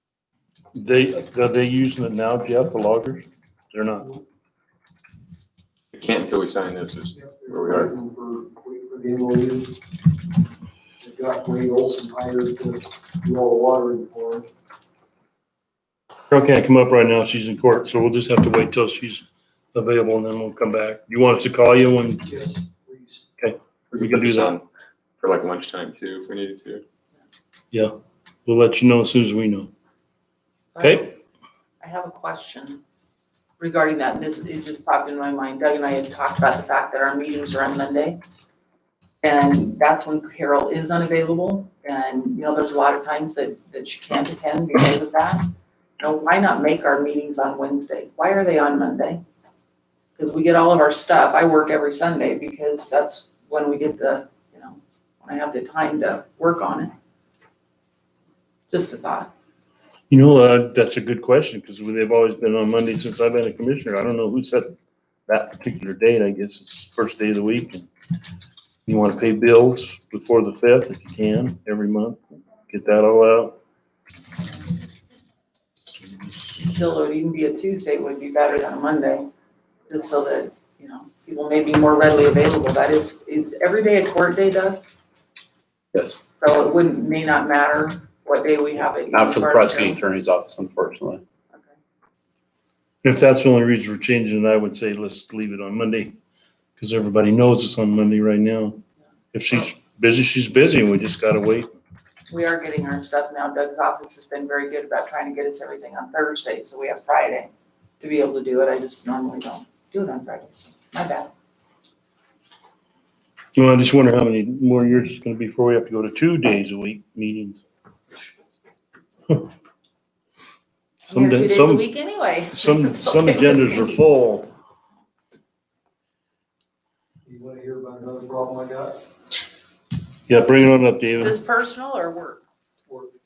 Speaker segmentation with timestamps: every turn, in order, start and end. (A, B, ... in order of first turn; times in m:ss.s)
0:00.7-0:04.1 A
0:05.9-0:07.9 B
0:07.1-0:09.8 C
0:11.0-0:14.5 C
0:16.3-0:22.3 A
0:22.2-0:23.3 C
0:23.4-0:24.6 A
0:23.9-0:24.6 B
0:25.2-0:26.8 B
0:28.5-0:29.7 A
0:30.7-0:31.1 D
0:30.8-0:31.2 A
0:31.8-0:32.8 D
0:33.6-0:38.2 D
0:39.2-0:49.2 D
0:50.2-0:56.9 D
0:58.7-0:59.3 D
1:00.1-1:04.7 A
1:05.3-1:07.9 A
1:08.9-1:13.6 A
1:16.6-1:19.3 D
1:19.9-1:24.8 D
1:25.9-1:26.2 E
1:26.4-1:30.0 D
1:29.1-1:31.2 E
1:33.0-1:36.2 A
1:36.8-1:38.8 A
1:39.3-1:41.7 A
1:42.3-1:51.3 D
1:53.6-1:57.6 A
2:01.1-2:03.9 D
2:01.1-2:01.8 A
2:02.5-2:04.5 A
2:07.3-2:09.0 C
2:10.3-2:11.4 A
2:11.2-2:12.4 D
2:12.8-2:13.2 C